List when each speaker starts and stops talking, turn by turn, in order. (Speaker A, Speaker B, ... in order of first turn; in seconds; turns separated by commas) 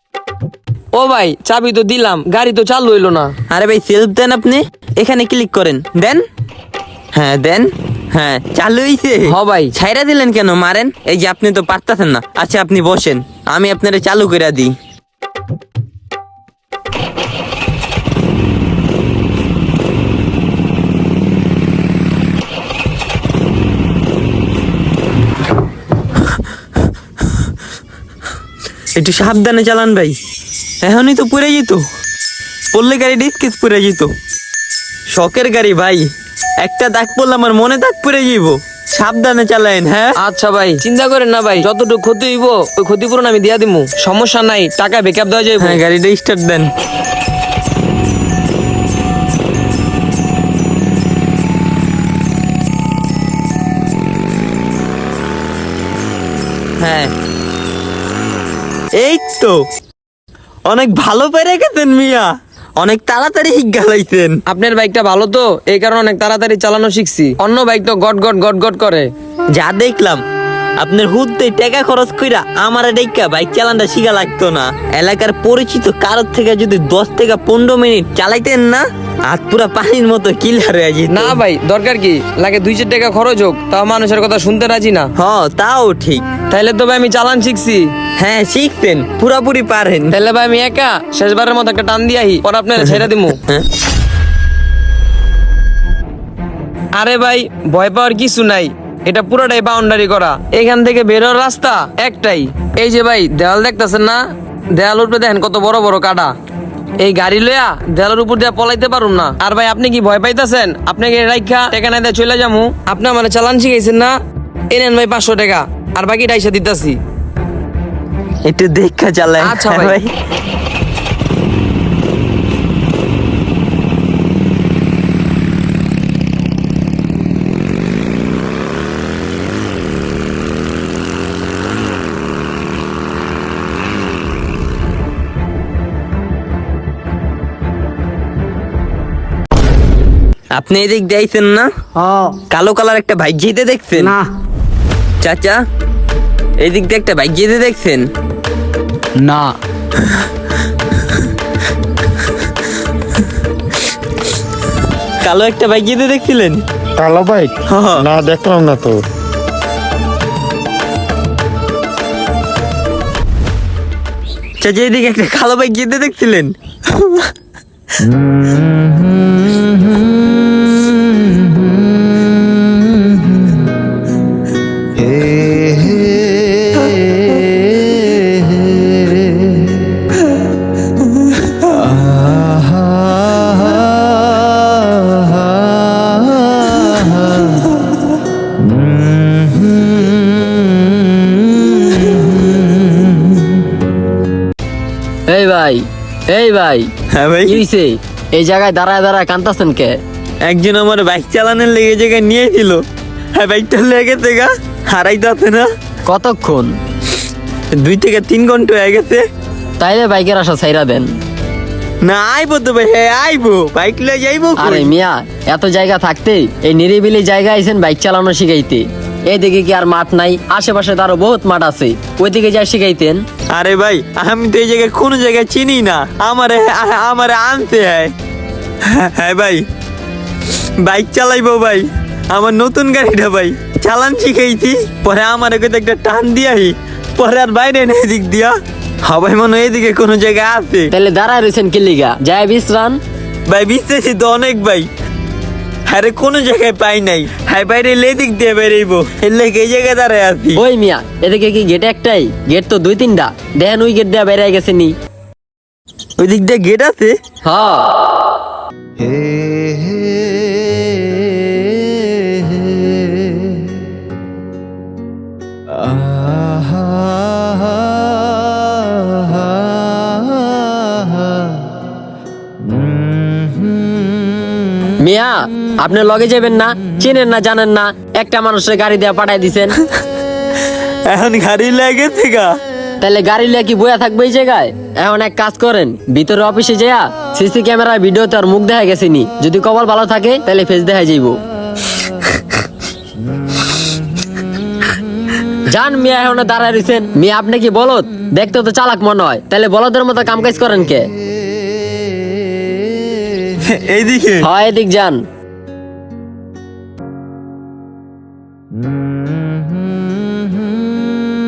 Speaker A: 0.9-3.3, Speaker B: 3.5-6.2, Speaker B: 7.2-14.8, Speaker A: 9.3-9.7, Speaker B: 29.0-30.2, Speaker B: 30.8-31.8, Speaker B: 32.7-34.1, Speaker B: 35.1-36.1, Speaker B: 36.6-40.2, Speaker A: 40.2-45.8, Speaker B: 45.6-46.7, Speaker B: 56.8-57.1, Speaker B: 59.0-59.6, Speaker B: 60.7-64.4, Speaker A: 64.5-69.1, Speaker B: 69.5-70.2, Speaker B: 70.8-81.4, Speaker A: 81.1-85.1, Speaker B: 85.2-86.3, Speaker A: 86.5-87.9, Speaker B: 88.2-90.2, Speaker A: 90.1-93.4, Speaker B: 92.9-93.7, Speaker A: 97.0-104.2, Speaker A: 104.7-106.3, Speaker A: 107.0-114.2, Speaker A: 114.7-117.0, Speaker B: 118.5-120.1, Speaker A: 119.4-120.0, Speaker B: 140.6-141.7, Speaker B: 142.5-144.2, Speaker B: 145.2-145.6, Speaker B: 146.6-148.1, Speaker B: 155.2-156.6, Speaker C: 157.0-159.0, Speaker B: 157.7-158.1, Speaker B: 164.6-167.3, Speaker D: 195.3-196.9, Speaker B: 197.1-197.6, Speaker D: 197.5-199.9, Speaker B: 200.4-202.8, Speaker B: 203.4-205.7, Speaker D: 206.1-206.7, Speaker B: 207.8-209.2, Speaker D: 209.8-211.1, Speaker B: 212.0-214.9, Speaker D: 214.6-223.2, Speaker B: 223.5-228.1, Speaker B: 228.8-229.6, Speaker B: 230.8-240.9, Speaker D: 240.9-243.0, Speaker B: 243.5-244.9, Speaker B: 245.9-250.6, Speaker D: 250.6-254.9, Speaker B: 256.2-257.1, Speaker D: 257.4-257.9, Speaker D: 275.0-279.8, Speaker B: 281.1-282.5, Speaker D: 283.0-291.4, Speaker D: 295.7-301.1, Speaker B: 303.6-304.5, Speaker D: 304.4-305.2